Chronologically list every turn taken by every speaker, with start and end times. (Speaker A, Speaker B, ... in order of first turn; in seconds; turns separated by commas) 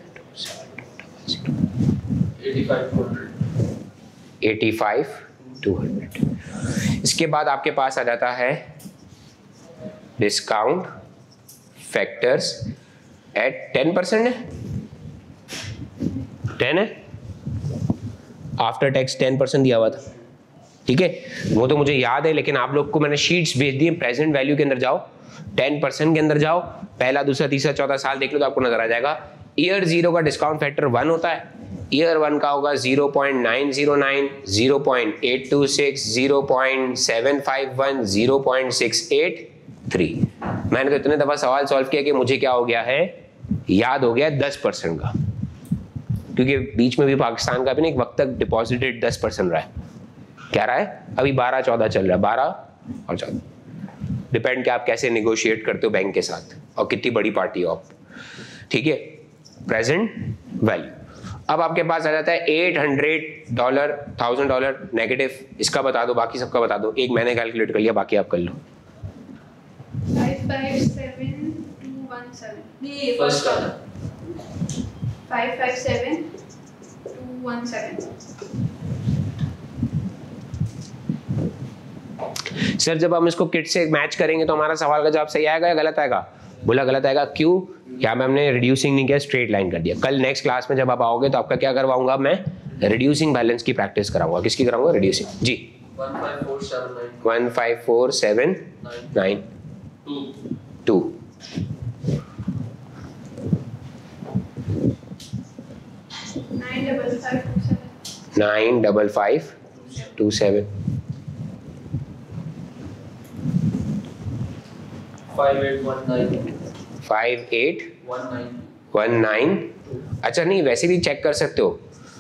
Speaker A: 2.4-3.4, Speaker B: 4.4-6.2, Speaker B: 7.0-8.7, Speaker B: 10.2-10.9, Speaker B: 11.9-12.7, Speaker B: 13.3-14.4, Speaker B: 16.6-16.9, Speaker B: 18.6-20.0, Speaker B: 20.9-43.2, Speaker B: 43.7-45.1, Speaker B: 46.3-49.7, Speaker B: 50.5-53.4, Speaker B: 54.3-57.9, Speaker B: 58.7-61.0, Speaker B: 61.5-68.6, Speaker C: 70.1-73.7, Speaker A: 73.1-73.8, Speaker C: 75.3-76.3, Speaker C: 77.1-78.1, Speaker B: 82.8-95.7, Speaker A: 95.9-97.2, Speaker B: 97.2-99.5, Speaker A: 98.8-99.2, Speaker A: 100.0-100.4, Speaker B: 100.9-101.2, Speaker C: 106.5-108.0, Speaker B: 108.3-110.7, Speaker A: 115.3-116.5, Speaker B: 117.0-117.9, Speaker A: 118.0-118.7, Speaker B: 118.9-121.8